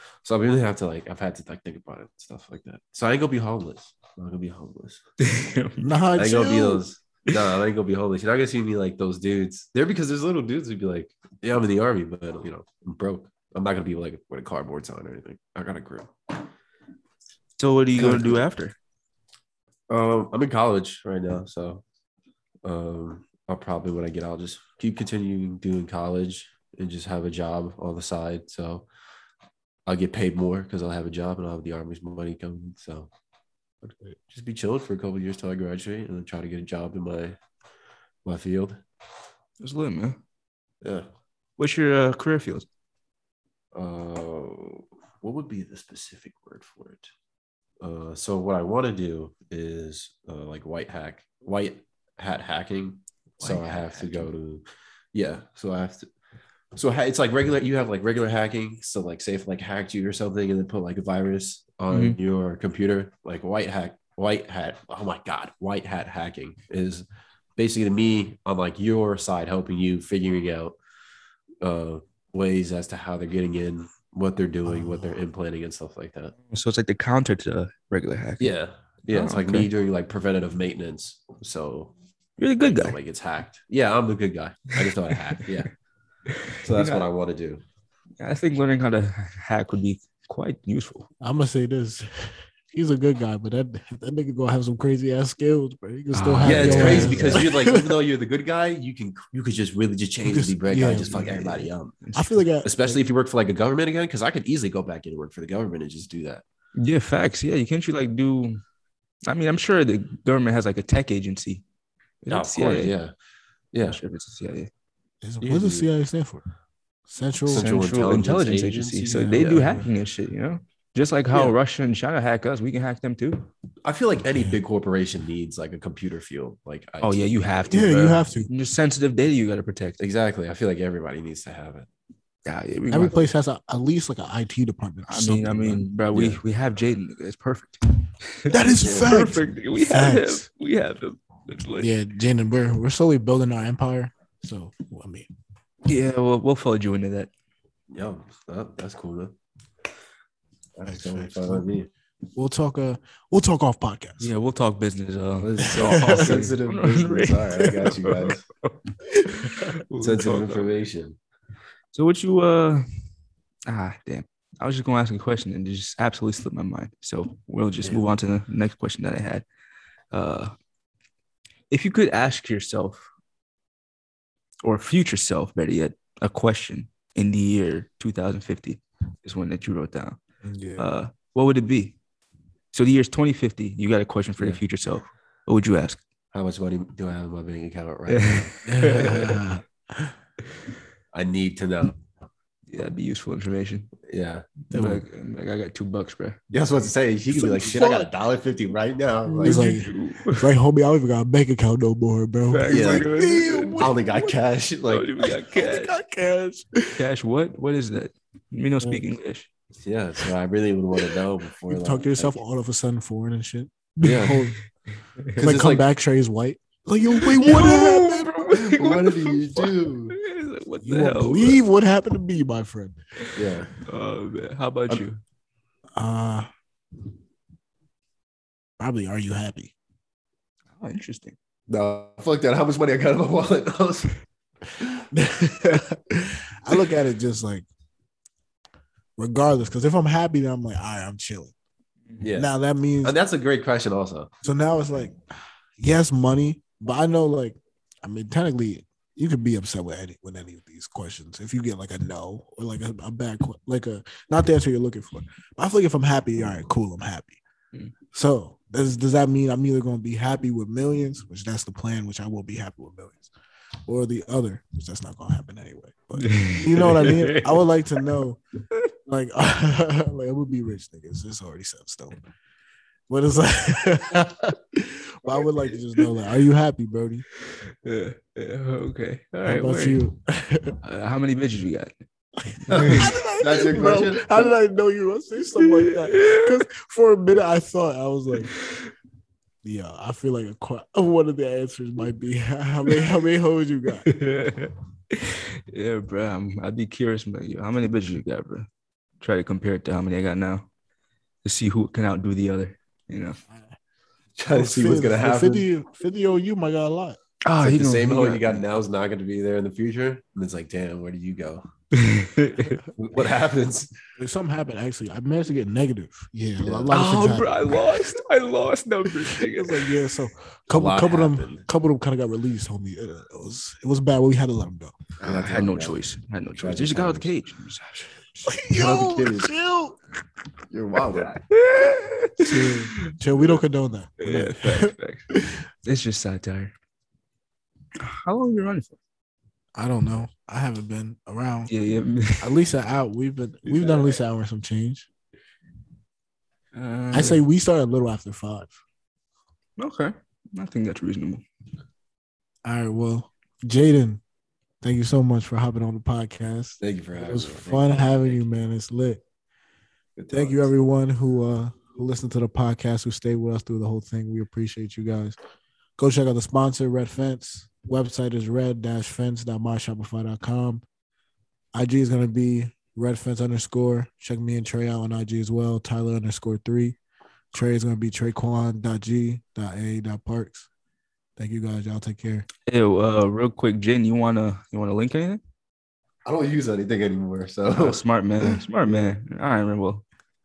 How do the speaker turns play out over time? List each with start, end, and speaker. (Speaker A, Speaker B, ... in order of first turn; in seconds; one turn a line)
Speaker A: 0.2-5.0
Speaker B: 5.2-5.9
Speaker C: 5.8-6.8
Speaker A: 6.2-16.5
Speaker B: 17.6-18.8
Speaker A: 18.0-18.4
Speaker A: 19.9-21.8
Speaker A: 22.6-28.9
Speaker A: 29.9-33.1
Speaker A: 34.2-37.4
Speaker A: 38.2-38.8
Speaker B: 39.6-40.2
Speaker A: 40.8-41.1
Speaker B: 41.6-42.7
Speaker A: 43.7-47.1
Speaker A: 47.8-56.1
Speaker B: 53.4-54.3
Speaker A: 56.8-70.8
Speaker B: 61.9-62.2
Speaker A: 71.6-76.3
Speaker B: 76.5-78.5
Speaker A: 78.4-81.9
Speaker B: 79.1-79.7
Speaker B: 82.4-83.0
Speaker A: 82.6-85.7
Speaker B: 84.8-85.5
Speaker B: 86.3-87.1
Speaker A: 86.6-87.6
Speaker B: 88.2-91.1
Speaker C: 91.2-98.0
Speaker B: 96.1-97.5
Speaker A: 96.4-102.0
Speaker C: 100.3-103.0
Speaker B: 102.0-102.3
Speaker A: 102.6-106.4
Speaker B: 106.8-108.6
Speaker B: 109.2-111.6
Speaker B: 112.2-112.9
Speaker A: 112.3-113.1
Speaker A: 113.7-114.0
Speaker B: 113.8-114.7
Speaker C: 115.2-116.4
Speaker A: 115.4-115.9
Speaker C: 117.1-117.7
Speaker A: 117.5-119.8
Speaker B: 117.5-123.5
Speaker C: 119.1-119.9
Speaker A: 123.8-128.3
Speaker B: 127.0-130.0
Speaker C: 127.7-128.5
Speaker A: 130.0-131.9
Speaker B: 132.4-133.3
Speaker C: 132.9-135.9
Speaker B: 135.1-141.9
Speaker A: 136.1-136.4
Speaker C: 138.5-140.5
Speaker A: 138.8-139.2
Speaker C: 141.8-145.3
Speaker B: 145.9-147.3
Speaker A: 147.9-149.3
Speaker A: 150.8-151.9
Speaker C: 150.9-151.7
Speaker C: 152.3-154.3
Speaker B: 154.2-160.7
Speaker A: 155.4-158.4
Speaker C: 155.9-156.4
Speaker A: 160.0-161.2
Speaker B: 161.9-162.9
Speaker B: 163.7-169.4
Speaker B: 170.1-170.5
Speaker B: 171.7-173.1
Speaker B: 174.6-180.2
Speaker C: 180.4-180.9
Speaker B: 180.8-182.0
Speaker B: 182.7-186.0
Speaker A: 186.3-189.3
Speaker B: 188.1-189.3
Speaker C: 188.7-190.1
Speaker A: 191.1-192.0
Speaker B: 192.7-193.9
Speaker A: 194.0-194.5
Speaker B: 194.7-196.4
Speaker C: 194.7-195.0
Speaker A: 196.5-199.7
Speaker C: 197.3-198.1
Speaker B: 199.4-200.5
Speaker C: 199.4-204.4
Speaker B: 202.5-203.9
Speaker A: 202.7-203.1
Speaker A: 203.8-205.1
Speaker B: 204.9-205.9
Speaker C: 205.2-207.0
Speaker B: 207.0-209.5
Speaker A: 209.8-212.4
Speaker C: 211.7-214.6
Speaker A: 214.0-214.4
Speaker B: 214.1-214.4
Speaker B: 215.2-215.5
Speaker A: 215.4-215.8
Speaker C: 215.4-218.3
Speaker B: 217.0-221.6
Speaker A: 218.5-220.2
Speaker C: 220.8-223.0
Speaker B: 223.3-225.2
Speaker A: 223.3-223.7
Speaker C: 226.0-226.5
Speaker C: 228.8-229.7
Speaker B: 230.8-231.4
Speaker A: 231.7-234.1
Speaker C: 235.1-237.7
Speaker C: 239.2-241.5
Speaker A: 242.2-242.5
Speaker C: 242.3-243.2
Speaker A: 243.0-244.3
Speaker C: 244.4-245.2
Speaker C: 245.8-257.4
Speaker C: 258.1-263.3
Speaker C: 263.9-268.4
Speaker B: 266.2-267.7
Speaker C: 269.1-272.2
Speaker C: 273.1-277.3
Speaker B: 277.4-280.0
Speaker C: 279.5-280.8
Speaker B: 280.8-281.9
Speaker C: 282.5-288.6
Speaker B: 282.6-283.2
Speaker A: 282.7-284.6
Speaker B: 285.6-286.6
Speaker C: 289.6-294.1
Speaker B: 294.0-298.7
Speaker B: 299.2-300.7
Speaker B: 301.4-303.4
Speaker A: 304.4-305.7
Speaker C: 304.5-307.2
Speaker B: 307.4-308.6
Speaker A: 307.6-311.6
Speaker B: 311.9-312.8
Speaker A: 312.9-313.9
Speaker C: 314.2-318.1
Speaker A: 316.6-317.4
Speaker B: 316.9-319.9
Speaker C: 319.2-325.0
Speaker A: 320.7-321.6
Speaker A: 325.2-326.0
Speaker B: 325.2-328.5
Speaker A: 326.6-327.3
Speaker C: 328.5-330.0
Speaker A: 328.7-329.5
Speaker A: 330.7-331.4
Speaker B: 331.2-333.5
Speaker C: 332.4-335.5
Speaker B: 334.2-335.3
Speaker B: 335.8-336.7
Speaker B: 338.0-339.0
Speaker C: 339.8-341.7
Speaker B: 341.7-342.5
Speaker C: 342.4-345.1
Speaker B: 343.7-344.2
Speaker B: 346.7-347.4
Speaker C: 347.1-348.8
Speaker B: 349.8-351.4
Speaker C: 352.6-354.2
Speaker C: 354.8-359.2
Speaker A: 356.8-358.4
Speaker A: 360.2-360.7
Speaker C: 360.3-365.4
Speaker C: 366.0-370.8
Speaker C: 371.7-377.0
Speaker C: 377.5-380.7
Speaker C: 381.4-382.5
Speaker B: 382.7-385.4
Speaker A: 386.2-388.0
Speaker B: 387.7-390.0
Speaker A: 388.9-389.1